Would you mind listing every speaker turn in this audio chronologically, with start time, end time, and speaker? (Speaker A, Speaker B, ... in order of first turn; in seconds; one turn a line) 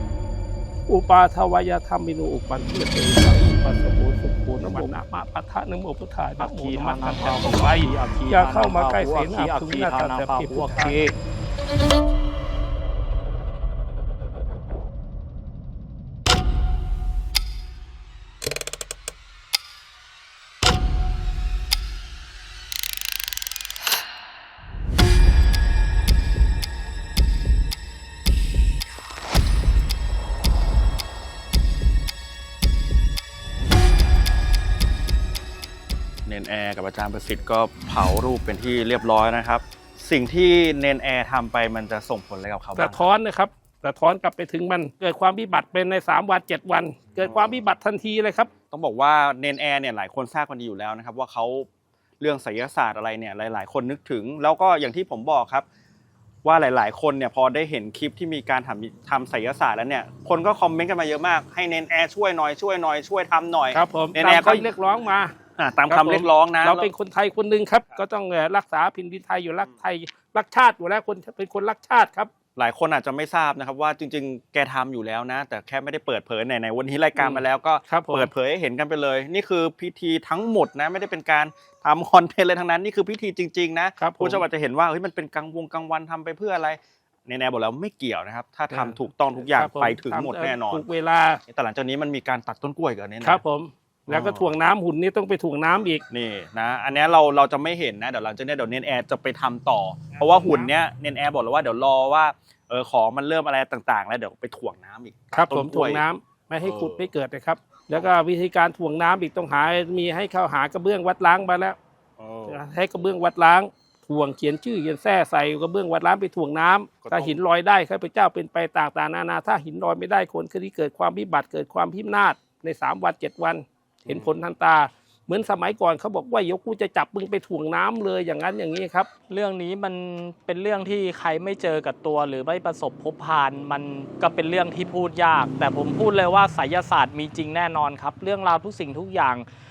Speaker A: 0.9-11.1
Speaker B: 6.4-11.1
Speaker C: 36.3-43.1
Speaker A: 42.8-48.5
Speaker C: 47.2-47.6
Speaker C: 48.7-51.7
Speaker C: 52.2-55.6
Speaker C: 56.4-64.7
Speaker A: 63.7-65.3
Speaker C: 65.6-66.9
Speaker A: 65.9-72.3
Speaker C: 72.6-90.8
Speaker A: 77.2-78.3
Speaker A: 84.0-84.5
Speaker A: 88.7-91.4
Speaker C: 91.5-93.4
Speaker A: 93.2-96.0
Speaker C: 94.1-94.5
Speaker C: 96.1-106.0
Speaker A: 100.2-100.7
Speaker A: 105.3-111.8
Speaker C: 106.6-107.1
Speaker C: 112.2-112.6
Speaker A: 112.5-129.1
Speaker C: 117.0-117.4
Speaker C: 124.0-124.3
Speaker B: 129.3-139.5